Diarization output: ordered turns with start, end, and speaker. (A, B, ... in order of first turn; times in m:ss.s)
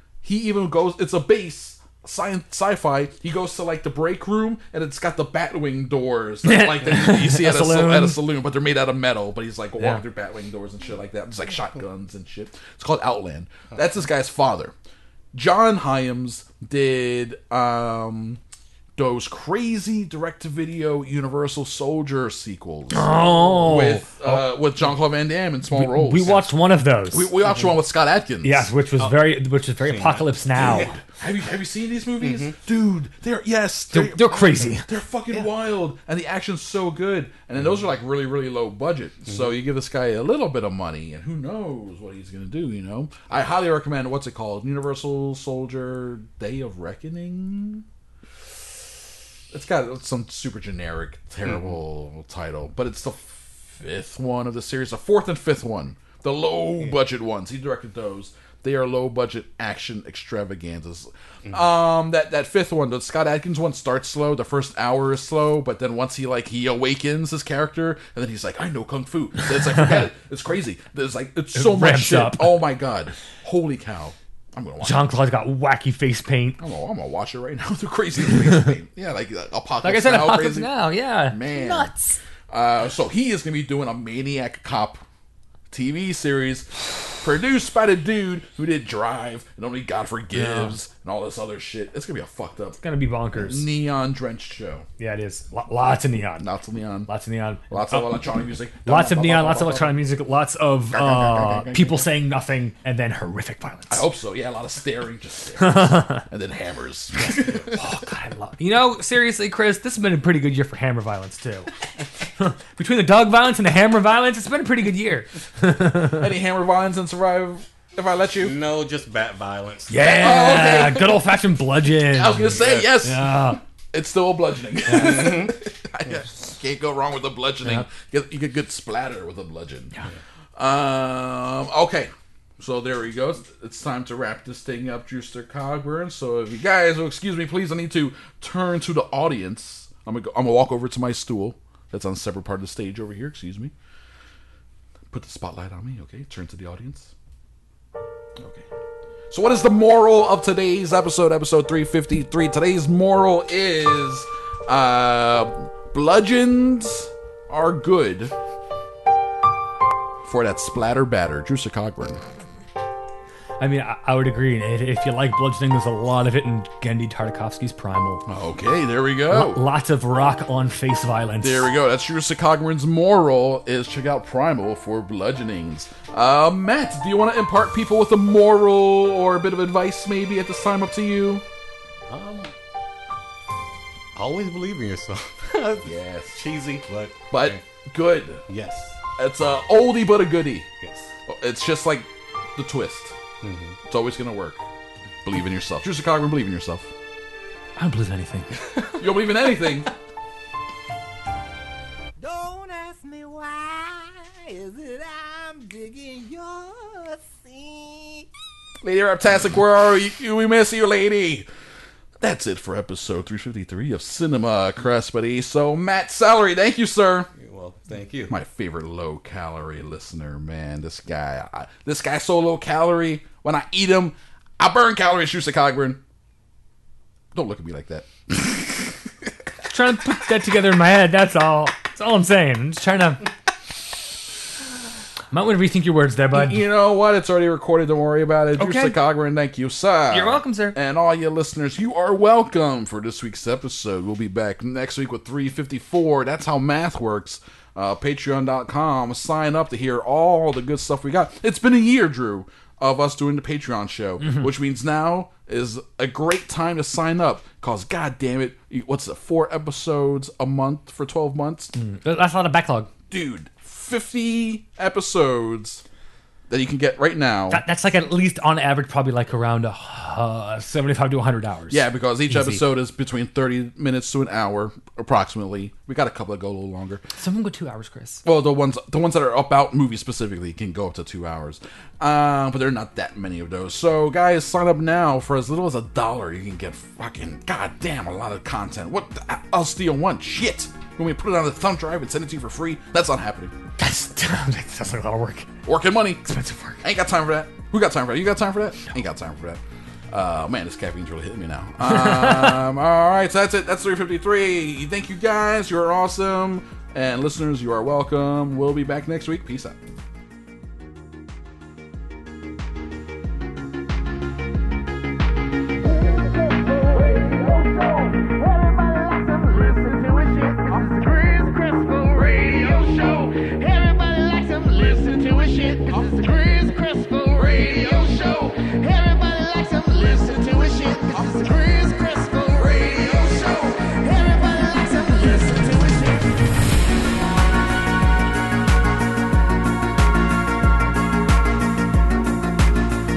0:00.2-0:14.7 A
0:06.4-0:08.2 B
0:15.3-0:18.4 A
0:19.0-0:26.5 A
0:22.9-0:24.4 B
0:25.7-0:27.3 B
0:27.1-0:28.7 A
0:28.4-0:30.9 B
0:29.0-0:30.9 C
0:30.6-0:47.8 A
0:32.2-0:32.5 C
0:33.9-0:34.8 B
0:49.5-1:15.1 A
1:11.6-1:12.6 B
1:14.8-1:16.6 B
1:16.6-1:20.7 A
1:19.8-1:22.2 B
1:21.3-1:21.9 A
1:22.5-1:25.0 A
1:25.7-1:32.8 A
1:30.3-1:30.7 B
1:32.8-1:33.6 B
1:33.3-1:34.8 A
1:35.0-1:36.5 B
1:36.4-1:37.1 A
1:37.1-1:38.1 B
1:37.7-1:40.0 A
1:38.8-1:44.0 B
1:40.9-1:42.0 A
1:43.9-1:47.8 A
1:45.6-1:46.2 B
1:47.2-1:51.7 B
1:52.4-1:56.3 B
1:56.1-1:58.6 A
1:58.4-2:00.2 C
1:59.9-2:03.6 B
2:00.1-2:01.1 A
2:02.1-2:09.9 A
2:02.4-2:02.9 C
2:04.9-2:05.2 B
2:04.9-2:05.5 C
2:10.6-2:23.7 A
2:25.1-2:27.1 A
2:28.4-2:28.6 A
2:29.3-2:38.3 A
2:40.2-2:42.2 A
2:43.6-2:48.2 B
2:48.3-2:49.6 A
2:49.3-2:51.7 B
2:51.4-3:01.4 A
3:02.1-3:02.5 C
3:04.1-3:07.6 C
3:05.8-3:06.4 A
3:07.3-3:08.4 A
3:08.5-3:09.0 C
3:09.2-3:10.7 A
3:10.8-3:11.1 C
3:11.3-3:13.1 A
3:13.4-3:13.8 C
3:13.9-3:14.6 A
3:15.2-3:16.9 A
3:17.8-3:18.6 B
3:18.8-3:19.9 A
3:22.2-3:28.3 D
3:28.8-3:31.5 A
3:32.2-3:37.3 A
3:37.3-3:38.3 C
3:38.3-3:46.0 A
3:47.3-3:49.3 A
3:49.7-3:53.3 B
3:55.3-3:56.6 B
3:56.3-4:21.7 A
3:58.6-3:59.0 B
4:00.1-4:00.8 B
4:14.2-4:14.5 B
4:21.7-4:22.9 B
4:23.1-4:25.8 A
4:26.5-4:27.6 A
4:27.5-4:32.6 B
4:31.7-4:37.0 A
4:37.2-4:38.2 B
4:38.2-4:53.6 A
4:53.8-4:55.5 B
4:55.6-4:56.3 A
4:56.2-4:56.8 B
4:56.8-4:59.6 A
5:00.1-5:09.8 A
5:01.8-5:02.6 B
5:16.0-5:36.3 D